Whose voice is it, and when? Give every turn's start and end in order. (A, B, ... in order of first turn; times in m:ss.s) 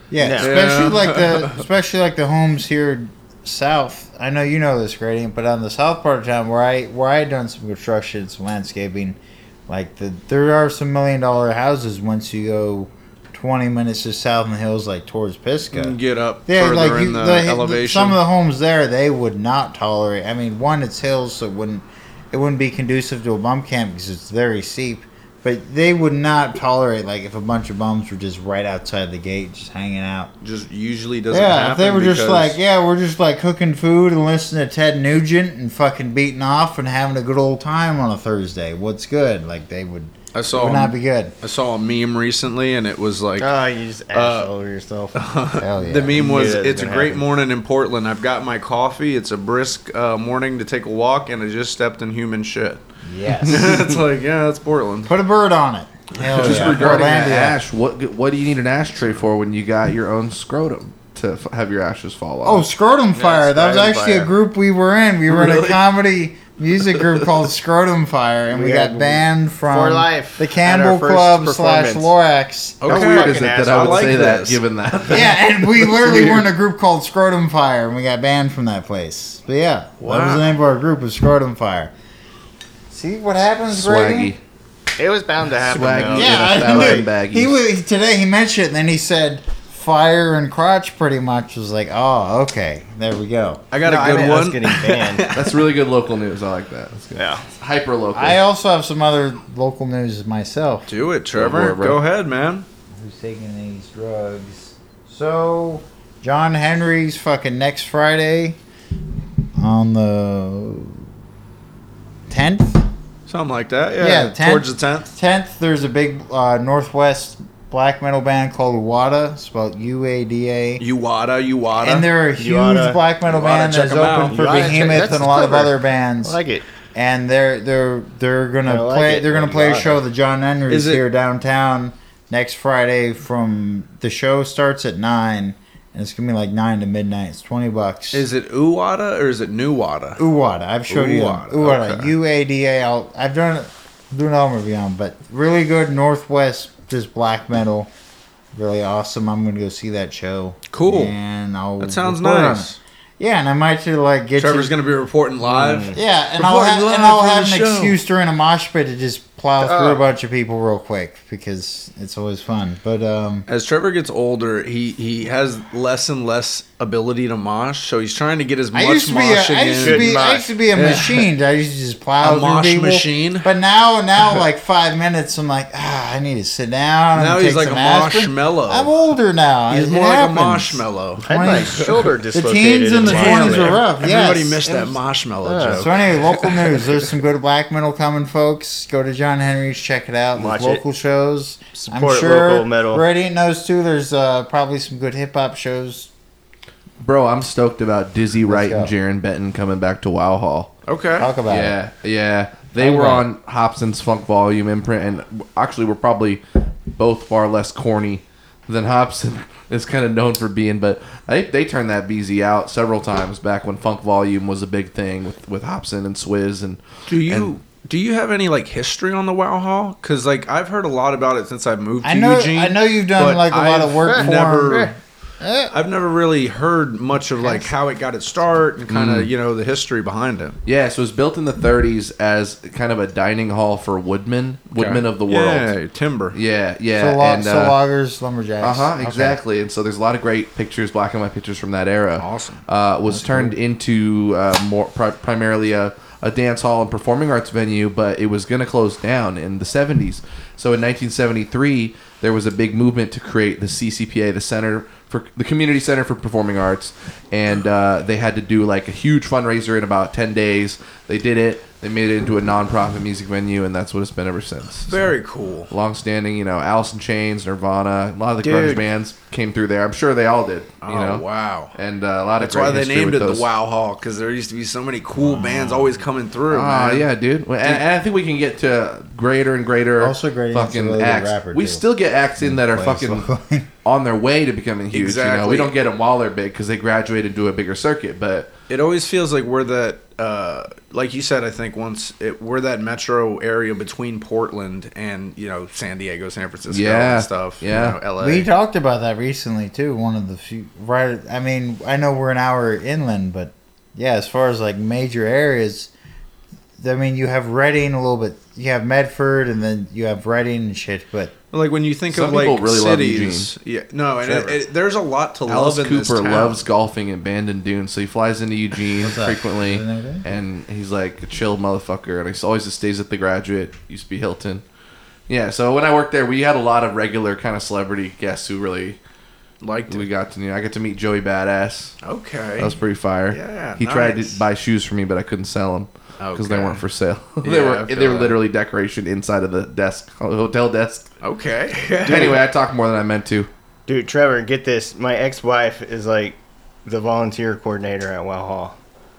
0:00.1-0:16.0 A
0:00.2-0:00.5 B
0:00.4-0:01.6 C
0:15.7-0:18.2 C
0:16.5-0:30.3 A
0:30.4-0:32.6 C
0:31.3-0:41.3 A
0:40.3-0:43.5 C
0:43.4-0:45.2 B
0:44.1-0:44.5 C
0:45.1-0:52.8 C
0:45.6-0:46.2 A
0:46.1-0:47.2 B
0:53.0-0:53.9 A
0:53.4-0:55.1 C
0:55.0-0:57.6 A
0:56.2-0:57.0 C
0:56.4-1:02.6 D
1:02.4-1:12.8 A
1:03.1-1:04.3 B
1:05.3-1:05.8 D
1:08.5-1:12.1 B
1:12.8-1:14.6 C
1:12.8-1:14.4 B
1:12.9-1:16.4 D
1:15.1-1:21.9 A
1:20.0-1:20.5 C
1:22.9-1:24.3 A
1:23.7-1:24.4 D
1:25.0-1:27.1 B
1:25.6-1:27.5 D
1:26.1-1:33.6 A
1:33.7-1:35.6 C
1:33.8-1:35.2 B
1:35.3-1:38.4 D
1:37.2-1:37.4 B
1:38.1-1:40.9 A
1:40.9-1:42.6 C
1:41.3-1:42.0 D
1:42.9-1:48.6 A
1:49.6-1:51.0 A
1:52.3-1:52.9 A
1:53.3-1:55.1 C
1:54.0-2:00.8 A
2:00.8-2:02.1 C
2:01.8-2:06.4 A
2:02.4-2:03.0 B
2:03.2-2:05.2 C
2:04.3-2:06.6 B
2:06.9-2:18.3 A
2:08.7-2:10.0 B
2:10.7-2:11.0 C
2:18.1-2:20.2 C
2:20.2-2:27.9 A
2:20.9-2:22.1 C
2:28.5-2:34.7 A
2:30.7-2:31.2 C
2:31.8-2:32.8 C
2:34.4-2:38.0 C
2:35.4-2:36.0 B
2:35.9-2:43.5 A
2:39.6-2:40.0 B
2:43.5-2:50.2 C
2:48.7-3:04.6 A
2:49.8-2:51.0 B
2:50.7-2:51.2 C
2:52.2-2:53.5 C
2:57.1-2:58.9 C
2:59.7-3:02.1 C
3:01.2-3:03.8 B
3:03.0-3:06.8 C
3:04.6-3:05.9 B
3:05.7-3:16.1 A
3:10.4-3:10.8 B
3:11.7-3:13.0 B
3:17.0-3:20.7 D
3:18.4-3:18.9 A
3:20.8-3:21.3 C
3:21.2-3:21.8 A
3:21.5-3:26.4 D
3:22.8-3:23.3 A
3:26.9-3:37.5 D
3:37.1-3:44.9 C
3:42.0-3:44.9 A
3:44.0-3:44.9 B
3:45.4-3:45.7 A
3:45.7-3:50.6 C
3:47.4-3:47.7 A
3:48.9-3:49.3 D
3:50.6-3:55.7 D
3:54.7-3:56.4 C
3:56.3-3:57.8 D
3:57.0-3:59.4 A
3:58.6-4:25.1 D
4:02.2-4:02.6 C
4:03.1-4:03.6 A
4:24.9-4:25.7 C
4:25.7-4:33.5 D
4:28.4-4:28.8 B
4:30.8-4:31.7 C
4:32.4-4:37.1 C
4:35.2-4:35.9 A
4:36.5-4:43.3 D
4:40.0-4:41.8 A
4:42.4-4:43.7 A
4:43.8-4:48.5 D
4:44.9-4:45.7 C
4:48.7-4:58.5 C
4:56.7-4:58.0 D
4:58.2-5:05.9 A
5:06.8-5:11.3 A
5:11.5-5:16.6 C
5:12.1-5:13.5 D
5:14.2-5:14.6 D
5:15.5-5:24.6 D
5:19.0-5:20.2 A
5:25.3-5:29.0 D
5:29.6-5:30.0 C
5:29.9-5:31.9 D
5:32.0-5:32.8 C
5:32.6-5:41.1 D
5:33.3-5:34.4 C
5:36.2-5:36.8 C
5:37.4-5:38.4 C
5:41.2-5:42.4 C
5:42.0-5:43.5 D
5:42.1-5:42.4 B
5:43.9-5:48.8 B